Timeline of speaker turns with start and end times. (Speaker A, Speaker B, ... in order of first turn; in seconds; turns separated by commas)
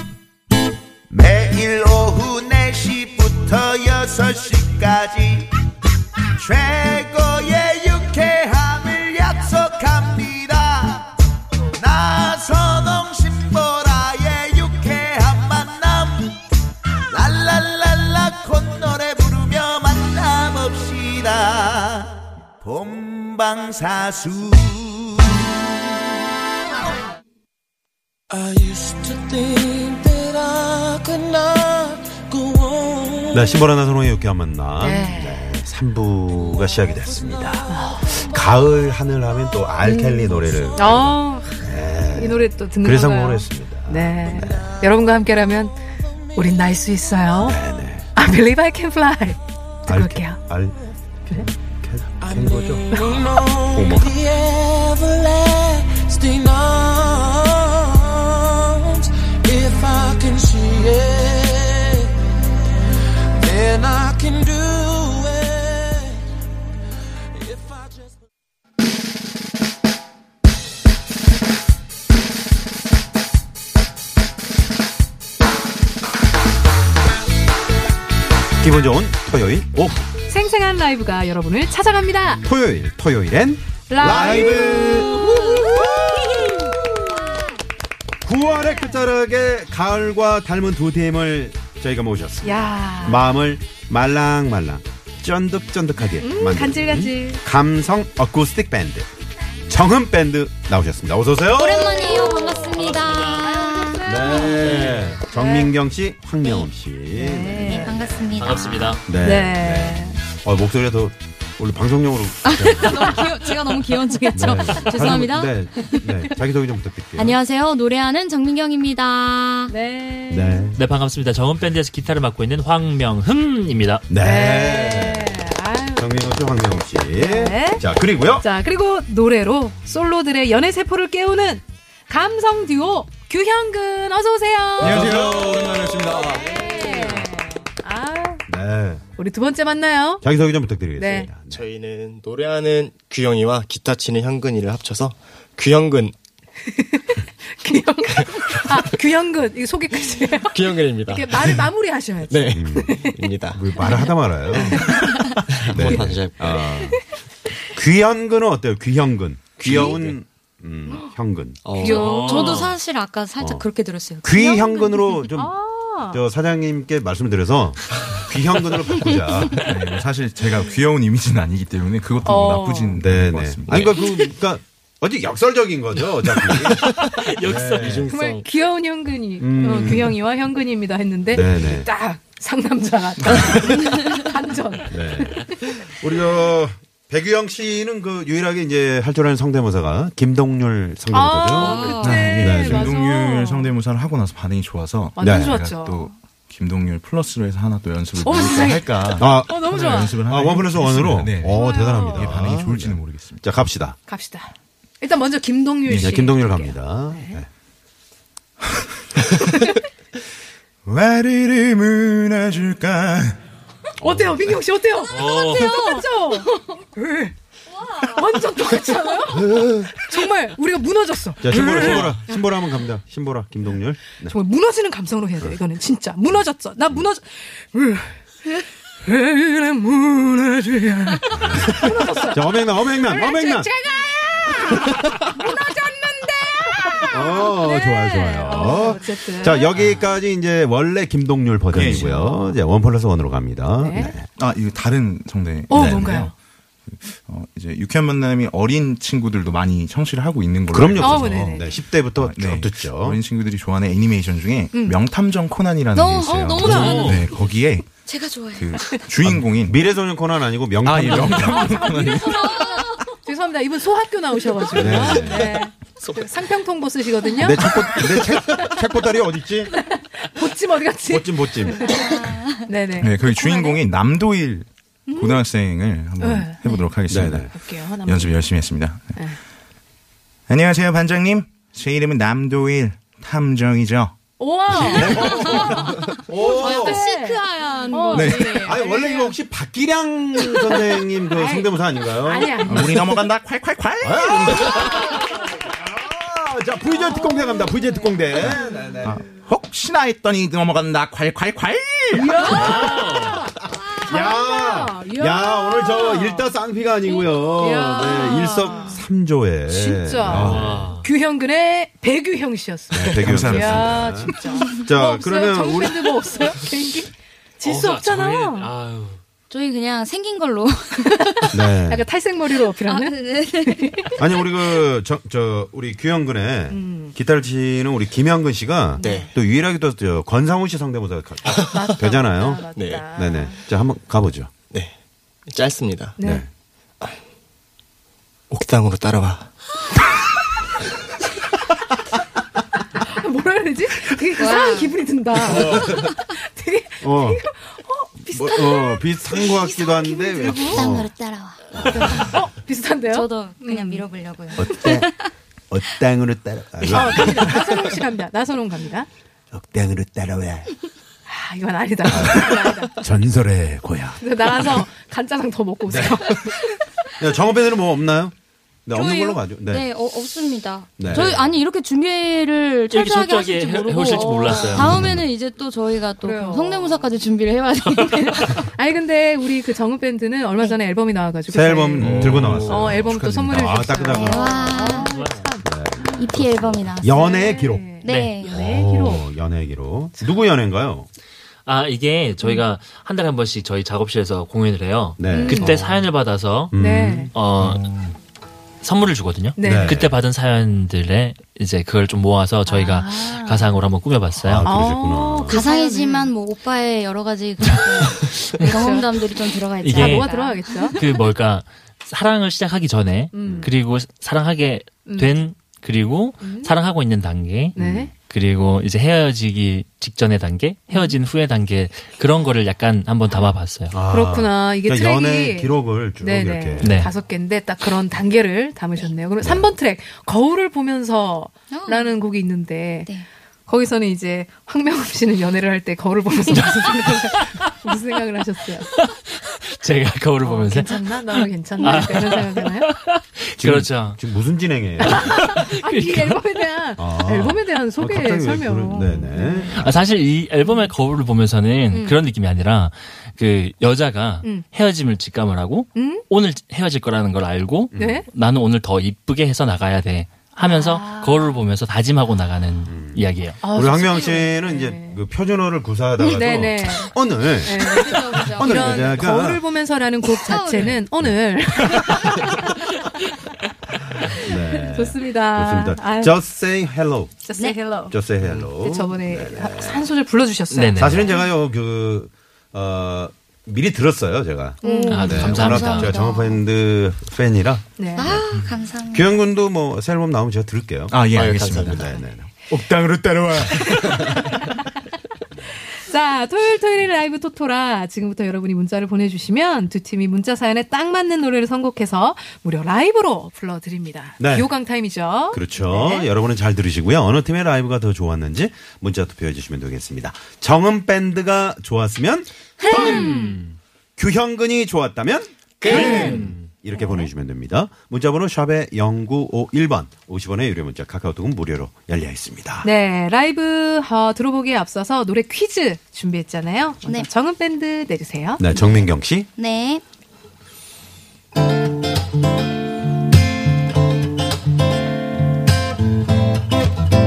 Speaker A: 1.1-5.5, Speaker A: 6.4-11.1, Speaker A: 11.7-16.4, Speaker A: 17.1-25.4, Speaker B: 28.3-33.6, Speaker C: 33.3-44.7, Speaker D: 34.8-35.4, Speaker D: 37.7-38.1, Speaker D: 39.8-41.6, Speaker D: 42.1-47.6, Speaker C: 47.4-48.1, Speaker D: 48.1-50.4, Speaker C: 49.9-50.8, Speaker C: 51.4-52.9, Speaker B: 52.2-62.3, Speaker C: 53.7-54.1, Speaker B: 63.4-66.2, Speaker B: 67.3-68.2, Speaker C: 78.6-80.0, Speaker D: 80.3-82.4, Speaker C: 82.4-87.1, Speaker D: 83.9-85.8, Speaker E: 84.1-85.1, Speaker F: 84.6-85.7, Speaker C: 88.2-99.1, Speaker D: 92.4-93.3, Speaker D: 96.2-97.4, Speaker C: 99.7-102.4, Speaker F: 101.5-104.6, Speaker D: 102.0-102.9, Speaker G: 102.7-103.3, Speaker D: 103.5-105.7, Speaker C: 104.0-108.1, Speaker G: 104.6-105.0, Speaker D: 107.1-108.0, Speaker F: 107.6-109.0, Speaker G: 108.1-109.0, Speaker C: 109.0-113.3, Speaker D: 109.2-110.2, Speaker F: 112.4-116.3, Speaker C: 114.3-117.4, Speaker F: 117.2-119.7, Speaker D: 119.7-120.7, Speaker C: 120.3-120.8, Speaker G: 120.7-124.1, Speaker C: 124.1-125.4, Speaker D: 124.2-126.1, Speaker C: 126.0-128.4, Speaker D: 127.1-127.8, Speaker D: 128.4-135.1, Speaker E: 134.8-136.6, Speaker C: 134.8-136.1, Speaker D: 136.2-138.4, Speaker C: 138.5-139.0, Speaker D: 139.2-140.2, Speaker C: 140.2-141.6, Speaker D: 141.0-141.3, Speaker H: 141.5-146.1, Speaker D: 146.7-153.2, Speaker H: 148.3-148.7, Speaker H: 150.5-151.7, Speaker H: 152.3-153.7, Speaker C: 152.5-153.0, Speaker C: 153.5-157.0, Speaker D: 154.5-155.0, Speaker F: 155.0-155.4, Speaker H: 155.5-156.7, Speaker E: 155.8-156.1, Speaker C: 157.7-161.6, Speaker E: 159.6-160.1, Speaker H: 161.6-162.1, Speaker F: 161.8-165.2, Speaker D: 161.8-162.7, Speaker G: 161.9-162.7, Speaker C: 163.4-163.7, Speaker C: 164.2-165.5, Speaker D: 165.3-166.2, Speaker C: 166.1-169.7, Speaker E: 169.5-174.2, Speaker D: 172.2-173.0, Speaker C: 173.0-178.1, Speaker G: 176.8-178.1, Speaker H: 177.8-178.5, Speaker D: 178.1-185.5, Speaker C: 179.4-180.2, Speaker C: 181.3-181.9, Speaker E: 183.2-183.6, Speaker C: 183.2-183.9, Speaker F: 183.8-184.3, Speaker C: 184.9-192.9, Speaker D: 191.1-193.7, Speaker F: 191.5-192.7, Speaker E: 192.0-203.5, Speaker D: 195.2-196.1, Speaker C: 195.2-195.6, Speaker D: 198.2-200.2, Speaker C: 199.2-204.0, Speaker D: 201.5-202.3, Speaker D: 204.1-207.4, Speaker E: 205.8-206.1, Speaker C: 205.9-207.5, Speaker E: 210.8-213.4, Speaker C: 214.0-214.6, Speaker D: 214.0-217.3, Speaker G: 215.1-215.8, Speaker F: 215.4-216.0, Speaker F: 217.7-218.4, Speaker D: 217.9-222.4, Speaker C: 219.4-219.8, Speaker C: 221.4-224.3, Speaker G: 221.5-222.2, Speaker D: 224.2-232.4, Speaker C: 231.3-233.7, Speaker D: 233.1-239.7, Speaker C: 237.0-244.3, Speaker E: 241.7-242.3, Speaker D: 243.8-244.1, Speaker E: 244.4-246.3, Speaker D: 245.7-246.3, Speaker C: 245.7-246.1, Speaker E: 246.9-257.9, Speaker C: 250.7-253.2, Speaker D: 251.0-251.7, Speaker D: 254.7-255.0, Speaker F: 255.9-257.3, Speaker D: 256.2-257.1, Speaker G: 256.6-257.2, Speaker F: 258.0-259.1, Speaker E: 258.5-259.8, Speaker C: 259.2-261.7, Speaker E: 260.8-262.8, Speaker D: 261.4-268.0, Speaker F: 261.9-263.1, Speaker C: 264.7-265.6, Speaker E: 264.8-265.2, Speaker F: 264.9-265.4, Speaker H: 266.0-266.3, Speaker C: 267.4-269.7, Speaker D: 269.8-273.8, Speaker C: 271.1-271.9, Speaker F: 271.8-273.7, Speaker E: 273.0-277.5, Speaker D: 275.1-275.4, Speaker D: 276.2-276.7, Speaker C: 277.1-277.5, Speaker D: 277.5-278.4, Speaker E: 278.0-279.1, Speaker E: 280.5-284.1, Speaker D: 284.4-289.3, Speaker E: 284.7-285.9, Speaker C: 284.7-287.1, Speaker F: 285.0-285.8, Speaker F: 286.5-288.9, Speaker E: 288.1-288.6, Speaker C: 288.5-292.7, Speaker F: 290.6-290.8, Speaker D: 291.3-293.3, Speaker E: 292.6-294.9, Speaker C: 294.0-299.2, Speaker D: 296.9-298.1, Speaker E: 298.4-302.5, Speaker D: 302.1-303.5, Speaker G: 302.5-303.4, Speaker C: 304.0-310.9, Speaker D: 304.0-306.5, Speaker D: 307.6-309.0, Speaker D: 309.7-318.7, Speaker G: 310.3-311.1, Speaker C: 312.9-316.1, Speaker E: 312.9-314.2, Speaker G: 317.6-319.2, Speaker F: 319.5-321.5, Speaker D: 321.0-324.1, Speaker C: 321.5-322.1, Speaker F: 322.8-324.5, Speaker C: 324.2-334.5, Speaker D: 326.7-327.1, Speaker D: 329.0-329.3, Speaker H: 329.0-329.3, Speaker D: 331.5-333.6, Speaker H: 332.7-333.1, Speaker H: 334.7-334.9, Speaker H: 335.5-336.2, Speaker D: 336.2-336.4, Speaker C: 336.2-336.5, Speaker H: 338.5-339.5, Speaker D: 342.9-351.1, Speaker F: 344.4-345.0, Speaker C: 345.4-346.1, Speaker C: 347.0-347.4, Speaker C: 348.3-351.1, Speaker F: 350.7-352.4, Speaker C: 351.8-352.3, Speaker D: 351.8-354.1, Speaker F: 353.1-355.3, Speaker C: 354.6-355.1, Speaker C: 355.7-357.9, Speaker D: 356.9-359.1, Speaker C: 359.5-360.7, Speaker D: 361.3-362.9, Speaker C: 362.1-364.2, Speaker D: 364.2-366.6, Speaker C: 365.9-366.3, Speaker C: 367.2-368.3, Speaker C: 368.9-369.9, Speaker F: 368.9-378.6, Speaker C: 371.0-371.5, Speaker G: 372.9-375.0, Speaker D: 374.1-374.7, Speaker E: 374.7-375.2, Speaker D: 376.2-377.0, Speaker D: 378.3-385.7, Speaker C: 381.5-384.8, Speaker E: 382.0-383.9, Speaker H: 382.4-382.9, Speaker F: 384.0-385.1, Speaker G: 384.9-385.5, Speaker C: 385.6-387.9, Speaker F: 386.0-387.4, Speaker D: 387.0-389.3, Speaker F: 388.0-388.5, Speaker G: 388.0-388.4, Speaker C: 388.5-391.1, Speaker G: 391.6-396.7, Speaker C: 395.2-396.0, Speaker D: 395.3-395.8, Speaker C: 396.7-397.3, Speaker D: 396.8-397.3, Speaker G: 397.3-397.9, Speaker E: 397.6-398.1, Speaker G: 398.8-404.7, Speaker D: 399.6-400.0, Speaker C: 399.6-400.1, Speaker D: 402.6-403.6, Speaker C: 404.4-405.6, Speaker D: 404.6-406.3, Speaker F: 405.5-411.0, Speaker G: 407.6-408.7, Speaker D: 408.6-409.1, Speaker G: 409.8-410.3, Speaker D: 409.8-411.0, Speaker G: 410.9-423.9, Speaker D: 413.3-413.7, Speaker C: 413.4-413.7, Speaker D: 415.1-415.4, Speaker D: 416.4-416.7, Speaker D: 417.8-418.1, Speaker C: 417.8-418.1, Speaker D: 420.9-421.1, Speaker C: 423.9-426.9, Speaker D: 424.1-433.1, Speaker G: 426.8-427.1, Speaker C: 429.4-429.7, Speaker F: 431.7-432.1, Speaker D: 433.7-438.9, Speaker G: 436.8-437.3, Speaker G: 438.9-444.2, Speaker D: 440.4-442.9, Speaker F: 441.8-442.1, Speaker C: 443.6-445.5, Speaker D: 445.0-449.8, Speaker G: 445.1-446.4, Speaker C: 447.0-449.9, Speaker G: 449.8-463.6, Speaker D: 450.6-450.9, Speaker D: 451.9-452.2, Speaker D: 455.9-456.2, Speaker C: 457.9-458.2, Speaker D: 457.9-458.2, Speaker D: 460.6-461.6, Speaker C: 462.9-469.6, Speaker D: 463.6-465.2, Speaker D: 466.2-472.8, Speaker F: 467.8-469.2, Speaker F: 470.3-471.0, Speaker F: 472.1-472.4, Speaker C: 474.3-477.4, Speaker D: 474.4-476.4, Speaker D: 477.4-478.1, Speaker F: 477.5-477.8, Speaker C: 478.1-480.1, Speaker H: 478.4-478.7, Speaker D: 478.8-481.3, Speaker G: 480.7-481.4, Speaker C: 481.0-488.4, Speaker D: 484.8-486.0, Speaker F: 484.8-486.6, Speaker G: 485.1-486.1, Speaker D: 488.0-488.4, Speaker F: 488.1-489.3, Speaker C: 489.1-492.5, Speaker E: 491.1-492.0, Speaker H: 491.3-492.1, Speaker E: 492.7-494.6, Speaker D: 493.8-494.9, Speaker D: 495.8-506.3, Speaker C: 504.4-504.7, Speaker C: 505.5-513.3, Speaker F: 512.8-513.4, Speaker D: 512.9-513.6, Speaker G: 512.9-513.7, Speaker C: 514.2-522.9, Speaker H: 515.8-516.5, Speaker D: 515.9-516.4, Speaker G: 515.9-516.5, Speaker D: 522.8-528.6, Speaker C: 528.6-529.5, Speaker F: 528.7-530.0